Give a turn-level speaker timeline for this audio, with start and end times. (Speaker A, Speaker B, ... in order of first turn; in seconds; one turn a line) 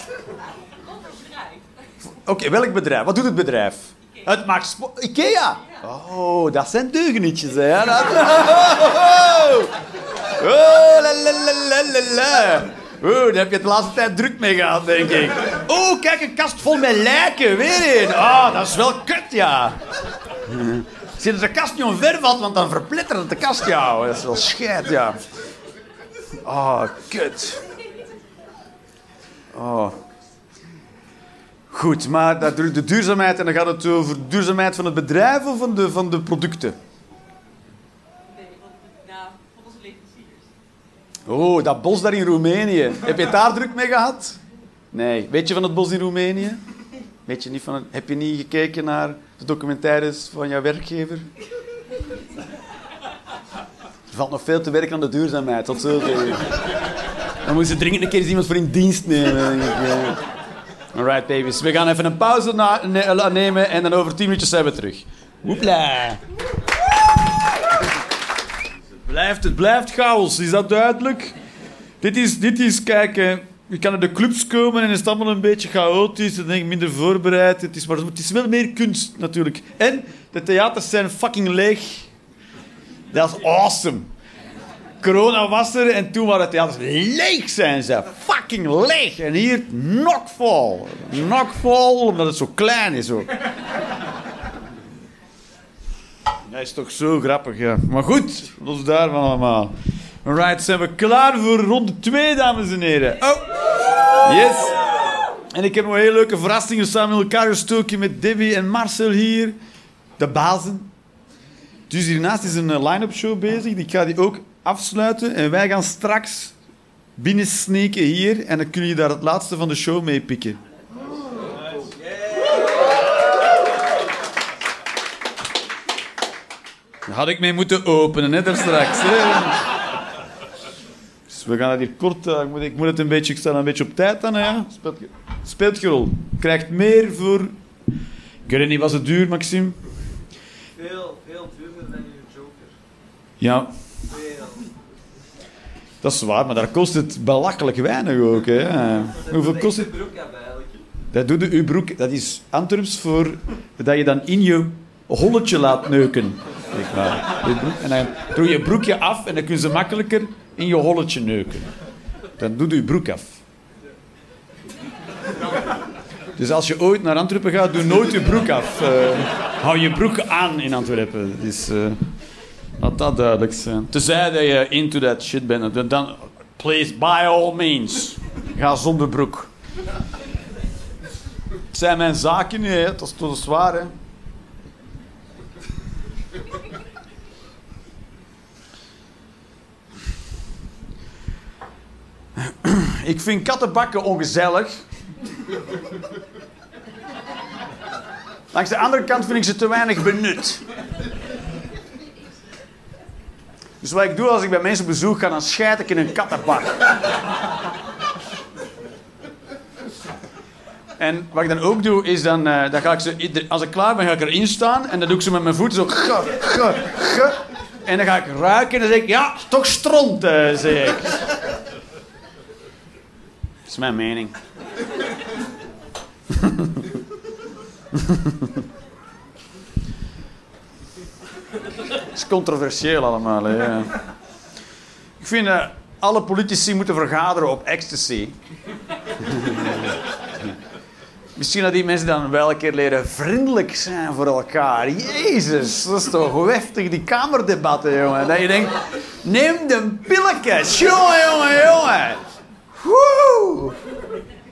Speaker A: 0.8-1.8
Speaker B: 2.0-9.7
Speaker B: 10.4-19.8
Speaker B: 20.5-25.2
Speaker B: 26.4-27.6
Speaker B: 29.5-30.0
Speaker B: 31.7-36.8
Speaker A: 38.3-40.5
Speaker B: 41.3-44.4
Speaker B: 44.9-46.6
Speaker B: 47.3-51.3
Speaker B: 54.1-56.5
Speaker B: 57.4-60.2
Speaker B: 60.9-66.2
Speaker B: 69.1-71.3
Speaker B: 72.0-82.1
Speaker B: 83.1-84.1
Speaker B: 85.0-93.3
Speaker B: 96.5-103.5
Speaker B: 104.2-104.8
Speaker B: 105.5-109.6
Speaker B: 110.2-110.9
Speaker B: 111.9-116.5
Speaker B: 117.2-120.6
Speaker B: 127.1-129.7
Speaker B: 131.3-137.5
Speaker B: 138.5-139.8
Speaker C: 140.8-142.8
Speaker B: 143.4-143.7
Speaker C: 144.1-144.7
Speaker B: 146.0-149.9
Speaker C: 149.0-150.9
Speaker B: 151.1-161.7
Speaker B: 162.4-163.4
Speaker B: 166.4-172.0
Speaker B: 172.8-179.5
Speaker B: 181.7-183.9
Speaker B: 192.4-194.8
Speaker B: 198.5-200.6
Speaker B: 203.8-206.8
Speaker B: 211.0-221.2
Speaker B: 223.7-224.3
Speaker B: 226.3-226.9
Speaker B: 227.9-228.5
Speaker B: 232.1-234.0
Speaker B: 235.2-238.4
Speaker B: 239.2-239.9
Speaker B: 241.4-252.2
Speaker B: 252.8-253.8